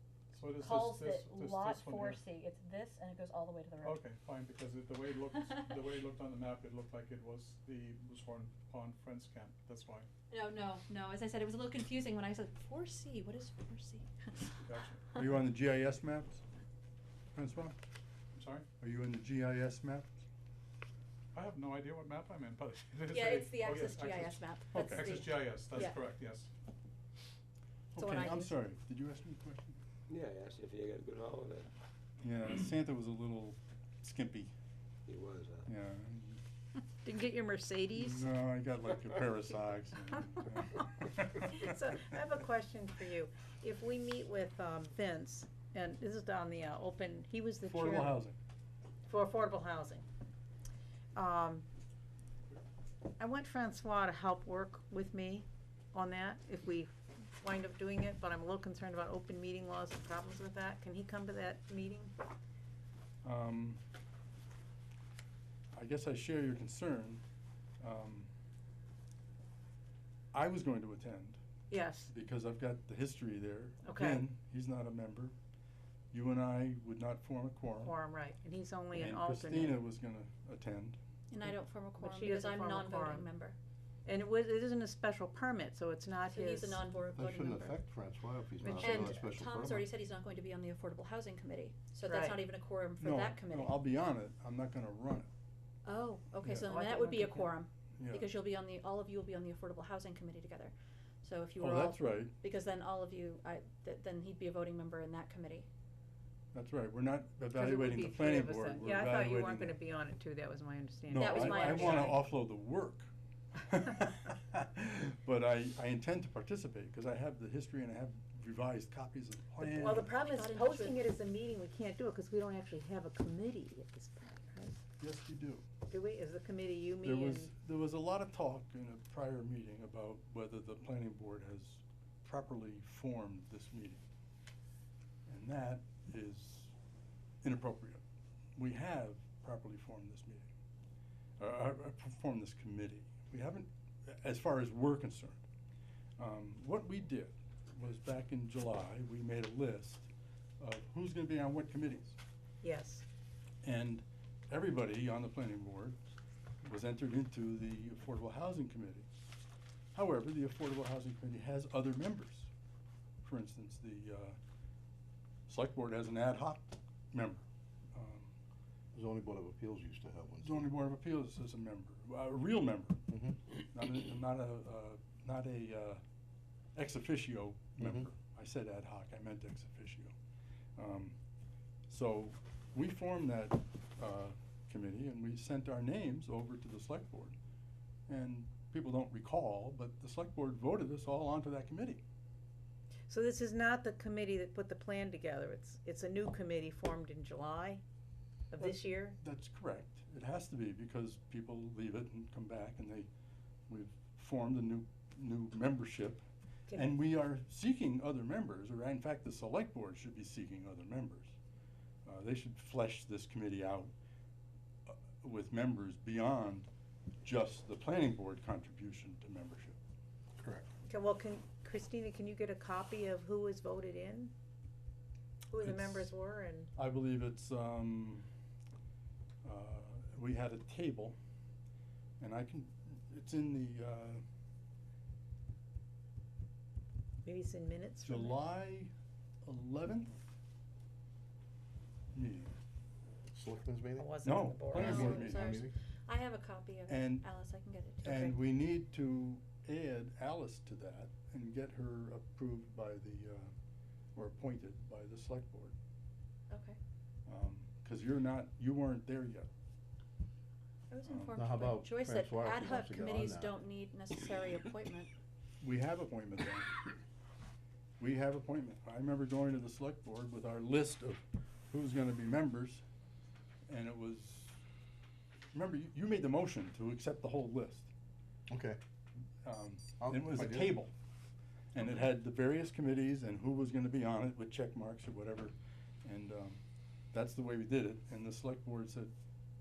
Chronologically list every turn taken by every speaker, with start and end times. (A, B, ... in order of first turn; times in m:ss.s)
0:00.3-0:02.2 A
0:00.6-0:04.0 B
0:03.8-0:10.1 A
0:10.3-0:14.4 B
0:14.6-0:15.2 A
0:15.1-0:16.4 C
0:17.3-0:17.8 C
0:18.4-0:18.7 A
0:18.8-0:20.2 C
0:21.3-0:26.5 A
0:23.1-0:26.0 B
0:24.7-0:25.2 C
0:27.9-0:29.8 C
0:28.0-0:28.5 B
0:30.1-0:31.7 D
0:32.2-0:34.5 C
0:35.1-0:35.7 D
0:35.6-0:36.4 C
0:37.0-0:38.3 E
0:37.9-0:41.7 C
0:41.4-0:48.2 E
0:47.6-0:48.4 C
0:49.1-0:50.0 E
0:51.1-0:51.6 E
0:53.2-1:02.1 E
1:03.2-1:03.8 C
1:05.7-1:07.2 C
1:07.8-1:08.3 C
1:10.3-1:11.4 C
1:11.7-1:12.1 E
1:12.0-1:15.3 C
1:13.8-1:14.2 E
1:16.1-1:18.0 C
1:17.8-1:19.8 E
1:18.9-1:21.0 C
1:21.3-1:23.6 B
1:22.0-1:23.2 E
1:24.0-1:26.8 E
1:26.3-1:27.8 B
1:27.1-1:29.8 F
1:28.6-1:29.2 E
1:28.6-1:33.8 B
1:32.0-1:32.4 E
1:33.0-1:35.3 C
1:35.8-1:45.7 B
1:36.6-1:37.5 E
1:38.0-1:38.3 C
1:41.6-1:42.3 C
1:46.5-1:49.8 C
1:47.5-1:52.2 E
1:51.1-1:53.1 C
1:51.1-1:52.2 B
1:53.6-2:00.1 C
1:59.6-2:04.8 E
1:59.9-2:01.0 B
2:05.0-2:05.6 C
2:05.9-2:07.5 E
2:07.0-2:14.0 C
2:15.3-2:16.7 C
2:17.4-2:18.0 C
2:18.6-2:20.5 C
2:21.4-2:25.4 C
2:26.2-2:30.1 C
2:30.6-2:32.2 C
2:32.6-2:33.0 E
2:33.6-2:36.0 C
2:36.6-2:39.1 C
2:39.9-2:42.5 C
2:43.2-2:44.4 C
2:45.5-2:47.4 C
2:47.9-2:48.3 C
2:48.9-2:50.7 F
2:50.4-2:53.0 C
2:53.1-2:53.4 F
2:53.7-2:56.0 C
2:56.7-3:00.1 C
2:57.8-2:58.1 F
3:00.8-3:01.2 C
3:01.9-3:07.4 C
3:08.1-3:12.0 C
3:13.1-3:17.8 E
3:18.5-3:19.2 E
3:18.6-3:23.1 C
3:23.7-3:31.3 C
3:32.0-3:33.9 C
3:34.9-3:36.7 C
3:37.2-3:39.8 C
3:40.9-3:44.3 E
3:45.5-3:46.7 E
3:45.6-3:46.1 C
3:46.8-3:48.3 C
3:49.4-3:51.2 C
3:52.2-3:54.2 C
3:57.2-3:58.4 E
3:58.0-3:58.9 C
3:59.4-4:00.2 C
4:02.1-4:02.5 C
4:03.3-4:05.7 F
4:04.0-4:05.2 E
4:04.2-4:05.6 C
4:04.7-4:08.3 B
4:06.9-4:07.2 C
4:08.0-4:13.5 C
4:14.1-4:15.7 C
4:16.5-4:16.8 B
4:17.3-4:19.5 C
4:20.9-4:25.1 B
4:21.0-4:21.4 C
4:21.4-4:23.6 F
4:25.6-4:26.8 C
4:28.0-4:32.8 C
4:33.7-4:34.6 C
4:35.5-4:37.9 C
4:38.5-4:38.8 F
4:39.4-4:40.9 C
4:40.0-4:40.8 F
4:41.7-4:46.6 C
4:47.1-4:49.1 C